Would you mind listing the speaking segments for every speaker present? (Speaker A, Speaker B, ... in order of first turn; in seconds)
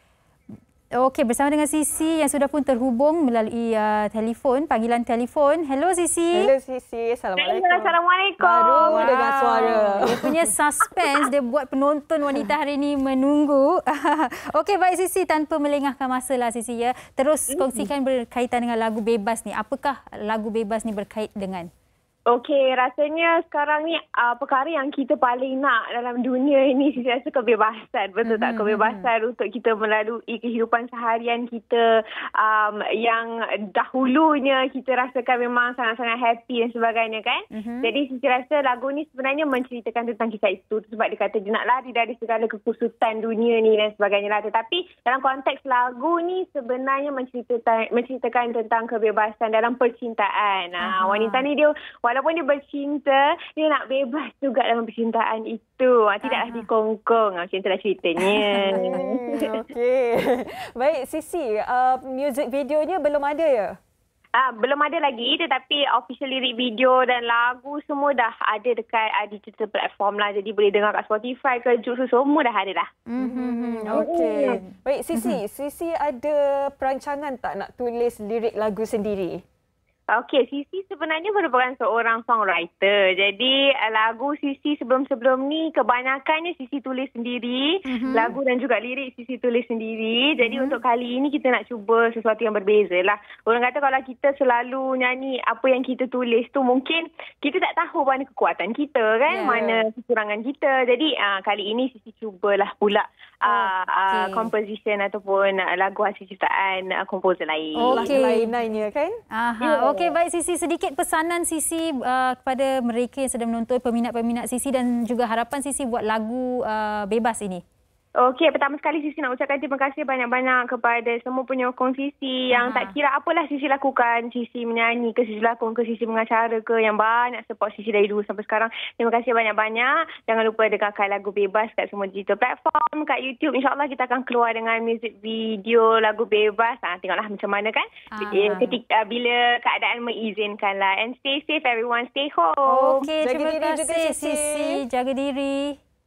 Speaker A: 1.0-6.5, 8.9-21.7, 28.2-29.1, 37.5-37.9, 50.8-51.5, 56.2-56.7, 58.3-58.9, 73.1-75.4, 87.9-88.3, 90.4-90.8, 99.3-99.8, 103.5-104.5, 107.8-108.5, 109.3-117.6, 122.5-123.0, 138.1-138.8, 142.7-145.8
Speaker B: 6.3-10.4, 58.7-63.8, 73.2-79.4, 107.9-109.2, 143.2-144.8
Speaker C: 7.4-9.1, 17.5-17.8, 22.3-59.5, 64.4-72.9, 73.9-74.6, 80.1-108.2, 109.6-110.2, 118.2-143.1